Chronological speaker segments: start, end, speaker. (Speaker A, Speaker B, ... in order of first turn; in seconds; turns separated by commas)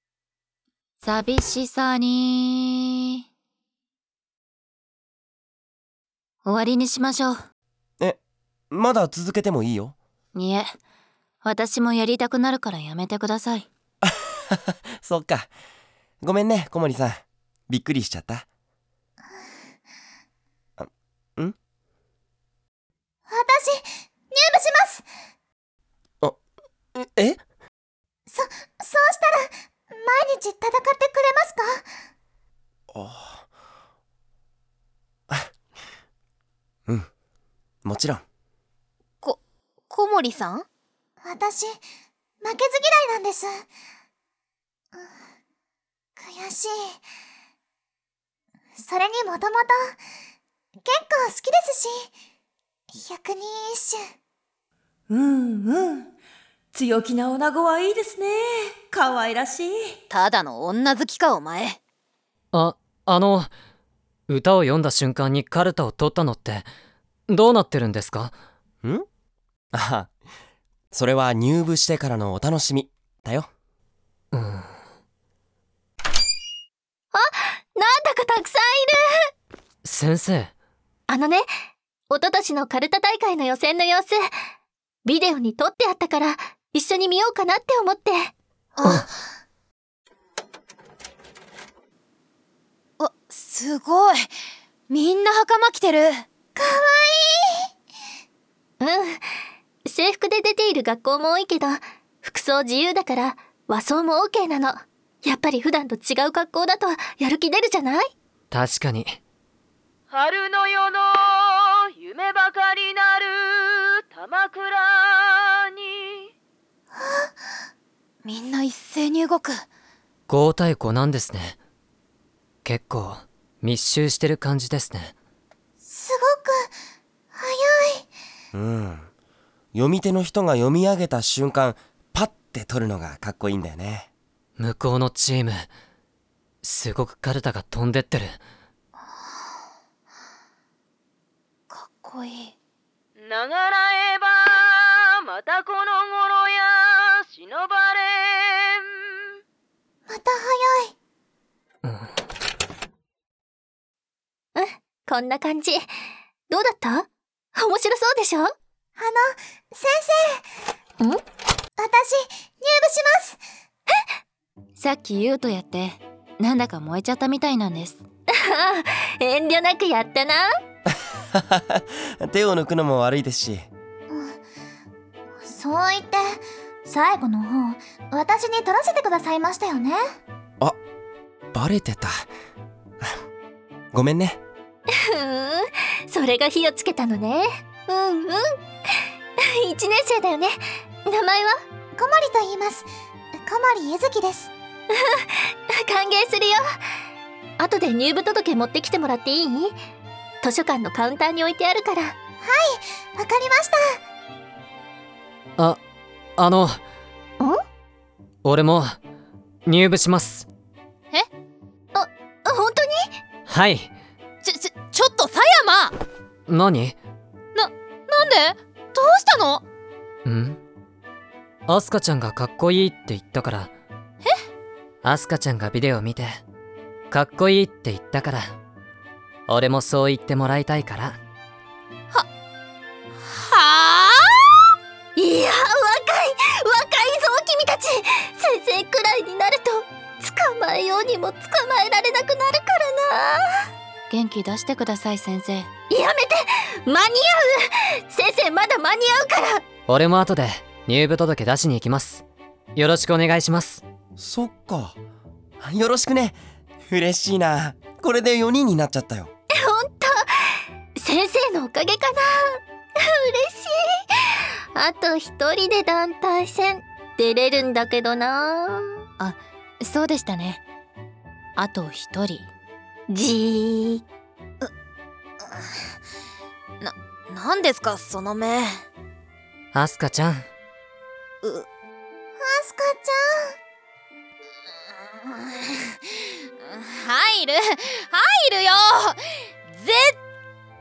Speaker A: 1.0-2.6, Speaker A: 6.5-7.3, Speaker B: 8.7-9.9, Speaker A: 10.3-10.6, Speaker A: 11.4-13.6, Speaker B: 15.0-15.5, Speaker B: 16.2-18.4, Speaker B: 20.8-21.6, Speaker C: 23.3-25.1, Speaker B: 26.9-27.4, Speaker C: 28.3-31.8, Speaker B: 32.9-33.4, Speaker B: 37.8-38.2, Speaker D: 39.2-40.6, Speaker C: 41.2-41.8, Speaker C: 42.4-43.6, Speaker C: 46.2-47.0, Speaker C: 48.8-50.0, Speaker C: 50.8-52.1, Speaker C: 52.9-54.0, Speaker E: 55.1-56.1, Speaker E: 56.7-60.0, Speaker D: 60.1-61.8, Speaker F: 62.5-63.5, Speaker F: 64.3-66.7, Speaker F: 67.3-68.3, Speaker B: 69.7-70.1, Speaker B: 70.9-73.5, Speaker F: 74.3-74.7, Speaker G: 77.1-79.0, Speaker F: 79.8-80.5, Speaker G: 81.1-81.5, Speaker G: 82.1-84.2, Speaker G: 85.0-88.3, Speaker D: 88.7-89.1, Speaker D: 93.0-94.3, Speaker D: 94.9-96.2, Speaker C: 96.5-97.7, Speaker G: 98.8-99.2, Speaker G: 99.8-108.1, Speaker F: 108.5-109.2, Speaker H: 110.1-110.8, Speaker H: 112.1-113.0, Speaker H: 114.2-114.7, Speaker C: 116.9-117.3, Speaker D: 118.2-119.6, Speaker F: 120.3-121.5, Speaker F: 122.6-125.1, Speaker C: 125.8-126.7, Speaker C: 127.3-128.1, Speaker B: 128.5-129.1, Speaker B: 129.7-134.1, Speaker F: 134.6-135.7, Speaker F: 136.6-138.4, Speaker D: 141.7-142.5, Speaker H: 143.2-143.8, Speaker H: 145.4-146.0, Speaker C: 150.1-150.9, Speaker G: 154.5-155.8, Speaker G: 156.5-158.5, Speaker C: 158.9-160.4, Speaker C: 161.8-163.4, Speaker A: 164.8-168.0, Speaker G: 168.4-170.5, Speaker B: 171.4-173.7, Speaker C: 174.1-174.4, Speaker C: 175.4-180.0, Speaker B: 181.5-182.3, Speaker B: 183.9-184.4, Speaker G: 185.0-191.6, Speaker C: 191.9-194.5, Speaker G: 194.9-196.6, Speaker G: 197.6-199.7, Speaker G: 200.4-202.1, Speaker C: 202.4-203.8, Speaker F: 206.4-206.8, Speaker F: 208.4-208.9, Speaker F: 209.7-210.5, Speaker G: 211.9-213.1, Speaker F: 213.5-213.9, Speaker D: 214.4-215.9, Speaker F: 216.5-216.9, Speaker D: 217.5-219.6, Speaker F: 220.2-220.6, Speaker F: 221.7-223.7, Speaker F: 225.0-226.4, Speaker F: 227.1-228.5, Speaker F: 229.5-231.2, Speaker D: 233.3-234.4, Speaker G: 235.2-243.4, Speaker A: 244.1-245.7, Speaker G: 245.9-249.6, Speaker F: 249.9-252.2, Speaker F: 252.8-253.8, Speaker B: 254.2-255.0, Speaker B: 255.6-259.3, Speaker G: 259.6-262.6, Speaker G: 263.1-263.8, Speaker G: 264.7-268.9, Speaker A: 269.2-270.6, Speaker A: 271.6-272.4, Speaker G: 273.1-274.0, Speaker D: 276.8-278.8, Speaker F: 279.7-280.5, Speaker C: 282.4-283.5, Speaker D: 285.2-290.1